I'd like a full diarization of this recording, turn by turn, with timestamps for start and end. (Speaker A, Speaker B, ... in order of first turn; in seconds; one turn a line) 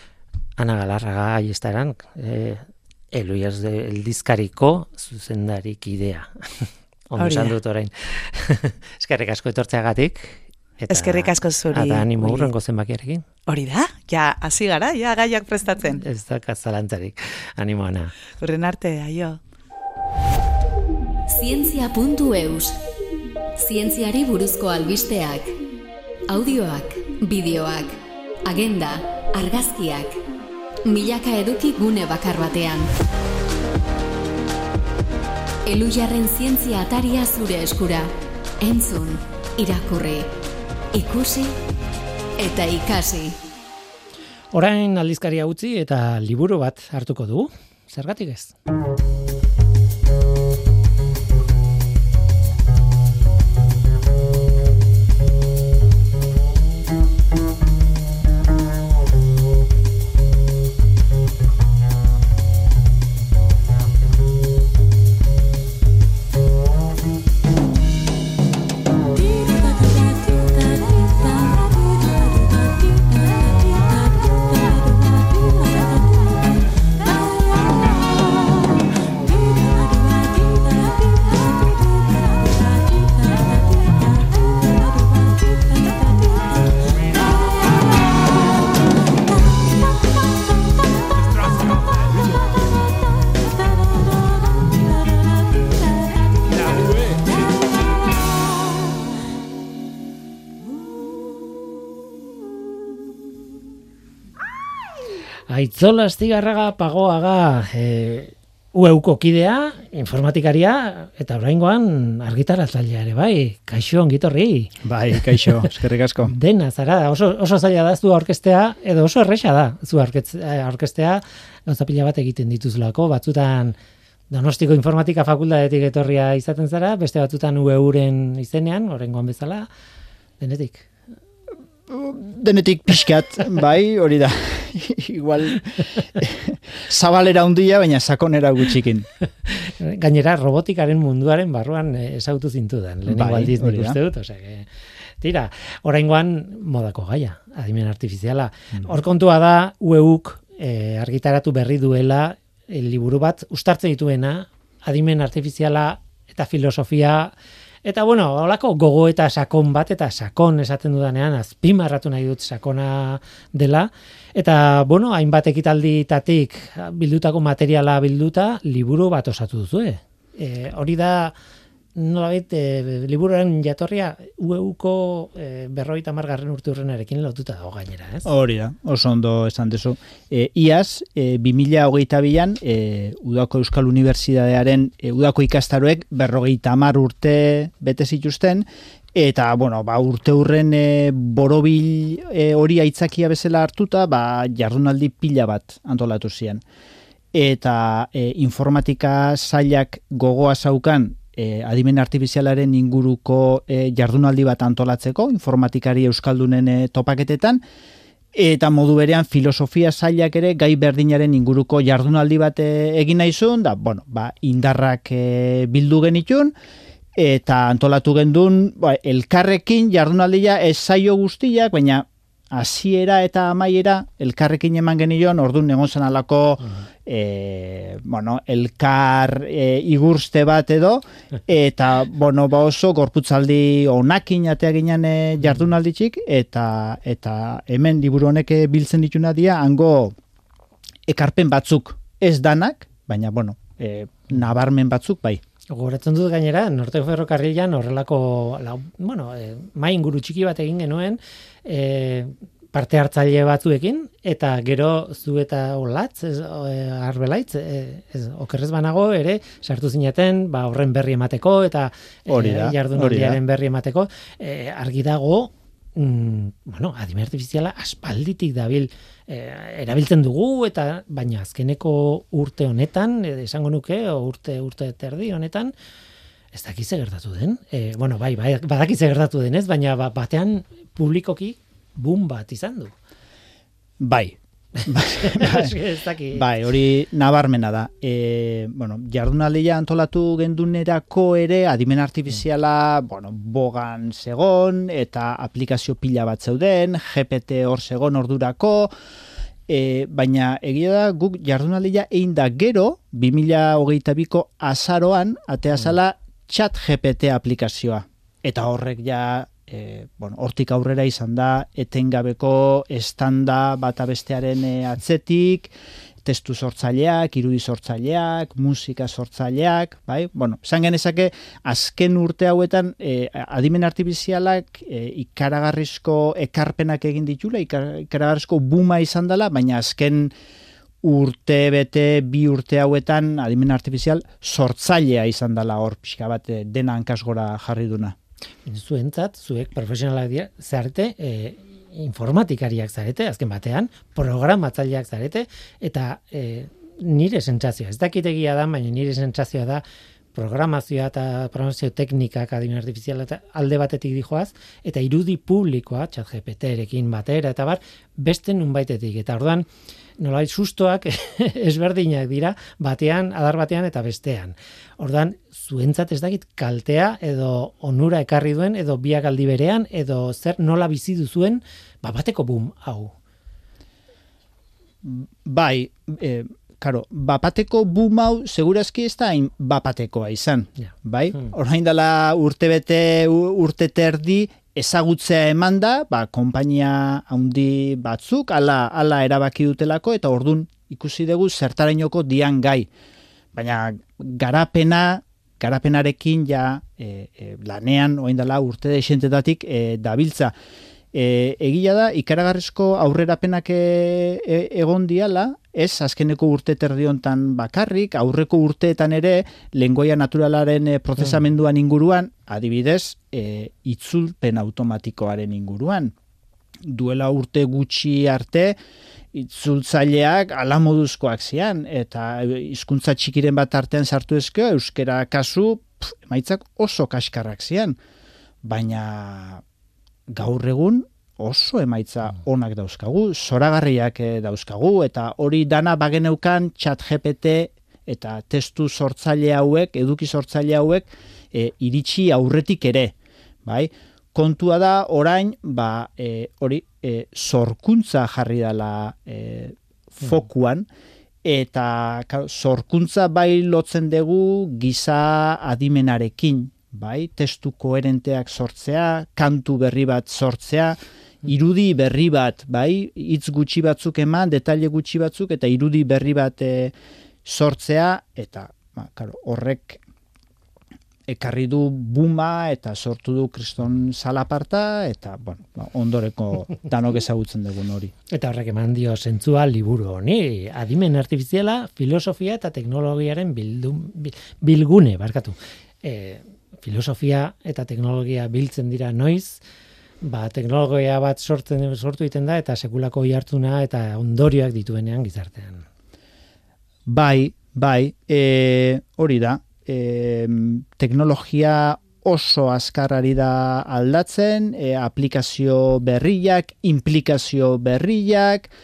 Speaker A: 0.6-13.2
Speaker B: 7.2-7.5
Speaker B: 10.9-12.5
Speaker B: 13.5-16.0
Speaker A: 16.0-18.1
Speaker B: 18.4-19.4
Speaker C: 21.3-22.8
Speaker C: 23.6-25.5
Speaker C: 26.3-30.2
Speaker C: 30.9-32.9
Speaker C: 35.6-38.1
Speaker C: 38.6-40.3
Speaker C: 40.9-41.5
Speaker C: 42.4-43.4
Speaker A: 44.5-48.5
Speaker A: 105.5-115.6
Speaker D: 114.8-116.3
Speaker A: 116.2-123.8
Speaker A: 124.3-129.7
Speaker A: 130.4-130.9
Speaker D: 131.9-139.1
Speaker A: 139.5-144.7
Speaker D: 143.1-144.0
Speaker A: 145.2-157.3
Speaker A: 157.8-171.3
Speaker A: 171.9-178.3
Speaker D: 178.2-196.6
Speaker D: 197.3-207.6
Speaker D: 208.3-216.5
Speaker D: 217.1-240.1
Speaker D: 241.1-245.4
Speaker A: 245.7-275.7
Speaker D: 262.3-263.4
Speaker A: 276.5-282.9
Speaker D: 284.0-285.8
Speaker A: 285.2-286.5
Speaker D: 286.3-298.9
Speaker D: 299.7-315.7
Speaker D: 316.2-330.3
Speaker D: 331.0-338.1
Speaker A: 338.6-349.8
Speaker A: 350.3-359.7
Speaker A: 360.2-373.1
Speaker D: 375.0-392.9
Speaker D: 393.5-400.5
Speaker D: 401.1-416.1
Speaker D: 416.8-418.8
Speaker D: 419.3-427.9
Speaker D: 428.6-429.6
Speaker D: 430.3-450.9
Speaker D: 451.4-466.9
Speaker D: 467.4-470.0
Speaker D: 471.3-478.1
Speaker A: 478.3-489.6
Speaker A: 490.2-495.8
Speaker D: 497.1-508.7